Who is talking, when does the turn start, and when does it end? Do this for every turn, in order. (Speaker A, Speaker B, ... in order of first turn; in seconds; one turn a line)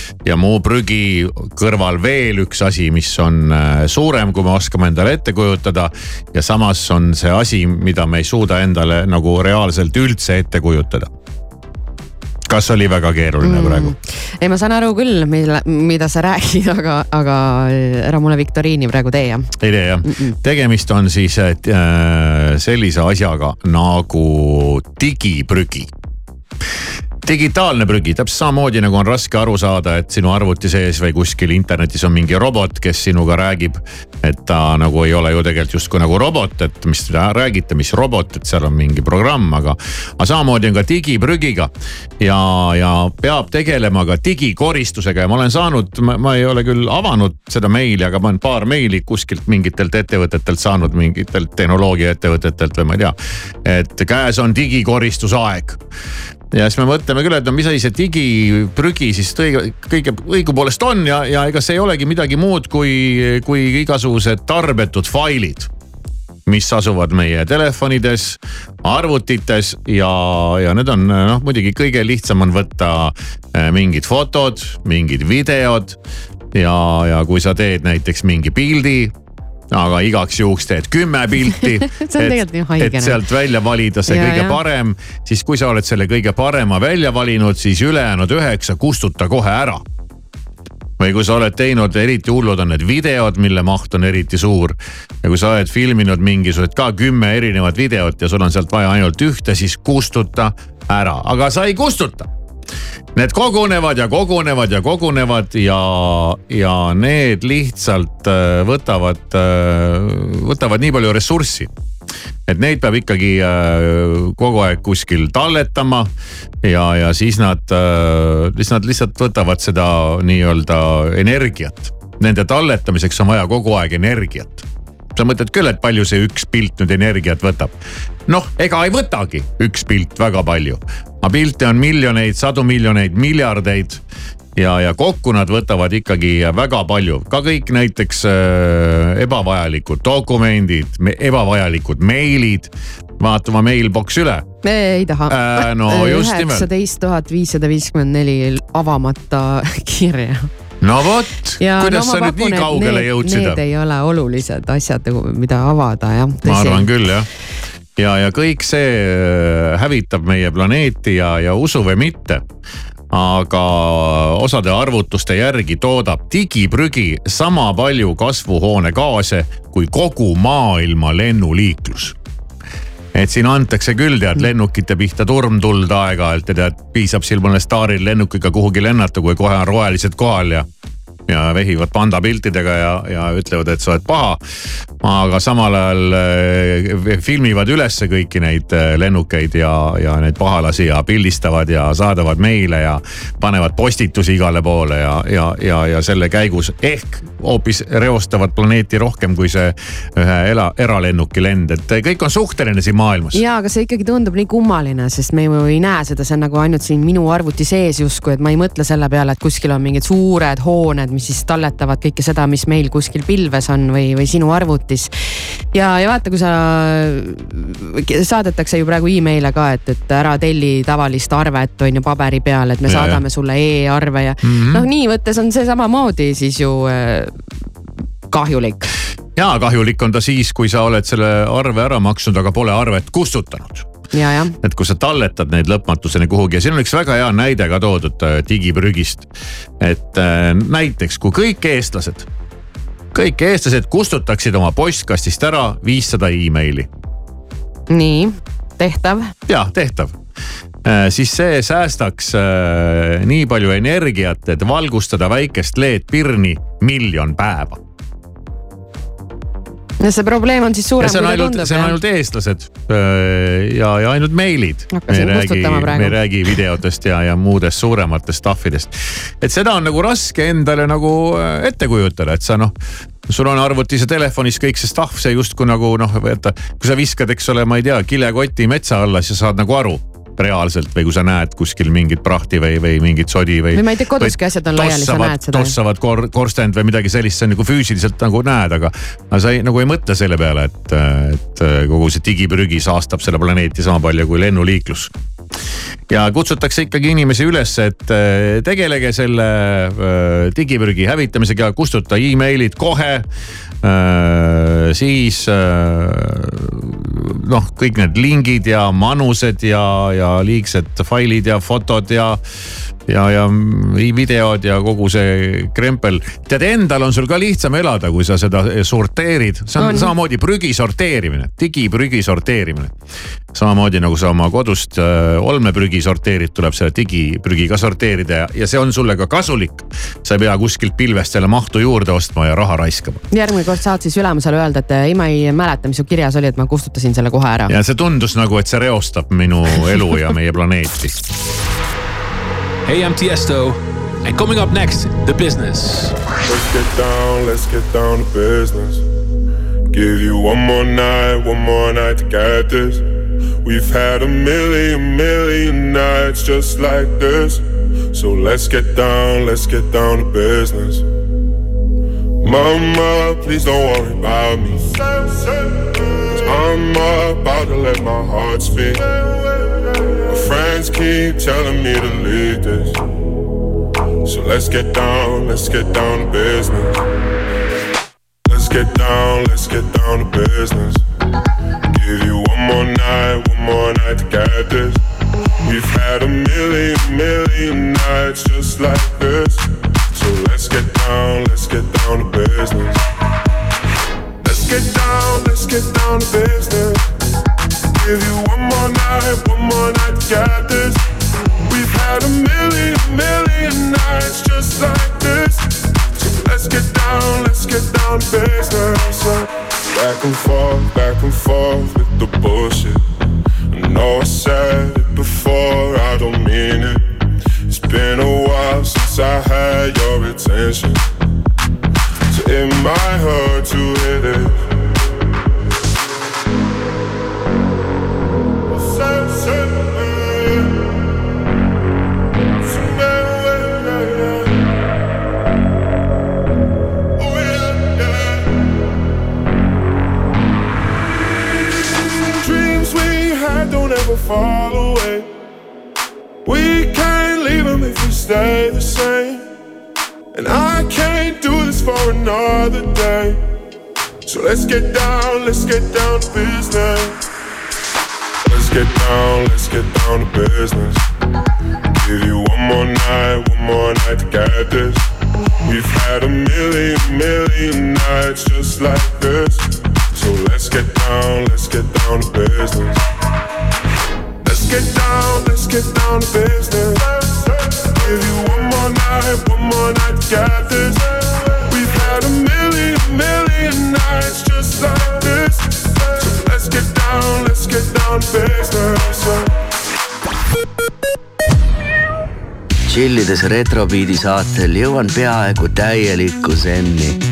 Speaker A: 0.2-11.1
Speaker A: 12.5-13.9
Speaker B: 13.4-19.5
Speaker A: 19.6-25.9
Speaker B: 20.1-20.4
Speaker A: 27.2-55.8
Speaker A: 56.5-65.7
Speaker A: 66.5-76.0
Speaker A: 76.5-79.1
Speaker A: 79.7-89.8
Speaker B: 81.9-83.2
Speaker B: 84.1-84.6
Speaker A: 91.0-102.3
Speaker A: 103.2-111.7
Speaker A: 112.5-116.1
Speaker A: 116.6-127.7
Speaker A: 128.3-134.0
Speaker A: 134.6-144.4
Speaker B: 144.6-150.5
Speaker A: 145.3-146.7
Speaker A: 150.8-153.6
Speaker B: 151.6-156.9
Speaker A: 156.4-157.3
Speaker A: 158.0-162.4
Speaker A: 163.1-172.2
Speaker A: 173.1-180.7
Speaker A: 181.3-184.4
Speaker A: 185.0-203.4
Speaker B: 203.3-215.1
Speaker B: 215.7-227.3
Speaker A: 222.9-223.2
Speaker A: 224.4-224.9
Speaker B: 228.3-228.9
Speaker A: 229.4-233.9
Speaker B: 234.1-234.5
Speaker A: 234.6-239.3
Speaker A: 239.8-242.3
Speaker A: 243.1-246.9
Speaker B: 247.9-249.3
Speaker A: 249.5-250.2
Speaker A: 250.8-257.8
Speaker B: 260.0-262.0
Speaker A: 261.0-272.7
Speaker B: 264.9-266.2
Speaker A: 273.3-295.1
Speaker B: 283.7-285.8
Speaker A: 296.1-303.3
Speaker A: 303.8-312.4
Speaker A: 313.1-322.9
Speaker B: 319.8-320.1
Speaker A: 323.5-333.2
Speaker B: 333.3-337.7
Speaker A: 337.7-341.1
Speaker C: 342.9-343.7
Speaker C: 344.3-346.1
Speaker D: 346.4-349.0
Speaker D: 349.9-353.1
Speaker D: 353.6-361.1
Speaker D: 362.4-369.2
Speaker D: 370.3-373.0
Speaker D: 374.2-377.0
Speaker D: 378.5-381.0
Speaker D: 381.9-385.0
Speaker D: 385.6-393.0
Speaker D: 394.4-397.0
Speaker D: 397.9-401.0
Speaker D: 401.6-413.0
Speaker D: 413.7-417.1
Speaker D: 417.7-421.1
Speaker D: 422.3-424.6
Speaker D: 428.7-430.7
Speaker D: 432.6-434.6
Speaker D: 437.2-438.4
Speaker D: 442.3-445.3
Speaker D: 446.4-449.5
Speaker D: 450.3-453.4
Speaker D: 454.3-457.2
Speaker D: 458.5-461.0
Speaker D: 461.9-465.0
Speaker D: 465.6-473.0
Speaker D: 474.4-489.5
Speaker E: 493.1-497.0